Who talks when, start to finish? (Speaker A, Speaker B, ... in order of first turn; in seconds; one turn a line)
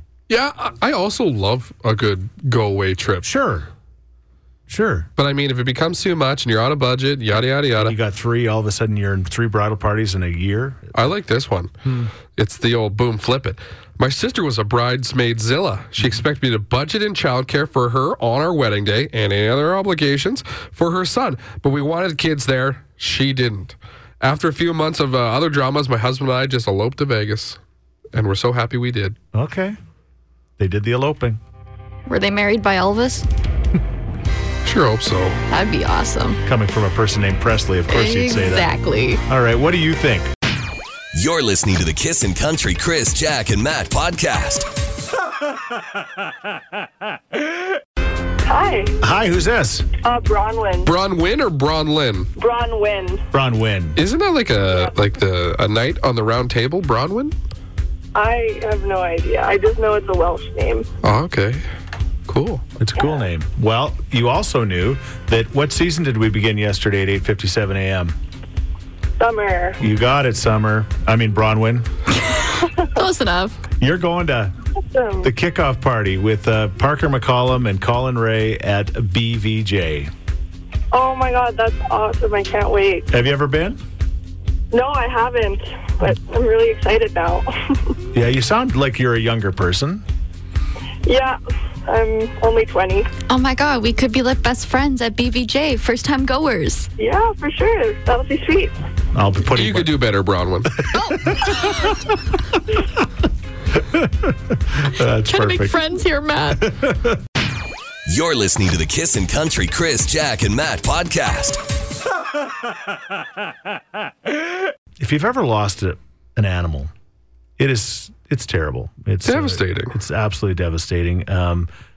Speaker A: 0.3-3.3
Speaker B: 3.2-3.7
Speaker B: 4.7-5.1
Speaker A: 5.2-8.0
Speaker B: 7.8-11.1
Speaker A: 10.9-11.7
Speaker B: 11.8-12.1
Speaker A: 12.4-27.6
Speaker A: 28.1-29.2
Speaker B: 29.3-29.8
Speaker B: 30.6-31.4
Speaker C: 32.1-33.3
Speaker A: 34.6-35.4
Speaker C: 35.5-36.4
Speaker B: 36.5-38.7
Speaker C: 37.9-39.2
Speaker B: 39.3-40.3
Speaker D: 41.1-44.7
Speaker E: 48.5-49.0
Speaker B: 49.0-49.9
Speaker E: 50.0-50.9
Speaker A: 50.9-52.3
Speaker E: 52.4-53.2
Speaker B: 53.3-54.0
Speaker A: 54.0-57.3
Speaker E: 58.1-60.9
Speaker A: 61.0-61.7
Speaker A: 62.3-62.6
Speaker B: 62.8-68.2
Speaker E: 69.2-69.8
Speaker B: 69.8-71.9
Speaker C: 72.2-73.6
Speaker E: 72.6-72.9
Speaker B: 73.8-74.5
Speaker E: 74.9-75.3
Speaker B: 75.2-80.1
Speaker E: 80.9-83.1
Speaker B: 83.1-83.8
Speaker E: 84.7-88.0
Speaker B: 88.1-90.0
Speaker E: 91.0-93.1
Speaker C: 93.3-96.9
Speaker E: 97.0-98.8
Speaker B: 99.1-100.0
Speaker A: 99.5-100.8
Speaker C: 100.9-102.0
Speaker B: 101.1-101.8
Speaker B: 103.8-105.8
Speaker C: 105.2-106.6
Speaker B: 106.6-107.2
Speaker D: 108.1-111.6
Speaker B: 115.0-116.9
Speaker B: 117.6-121.7
Speaker A: 119.2-120.0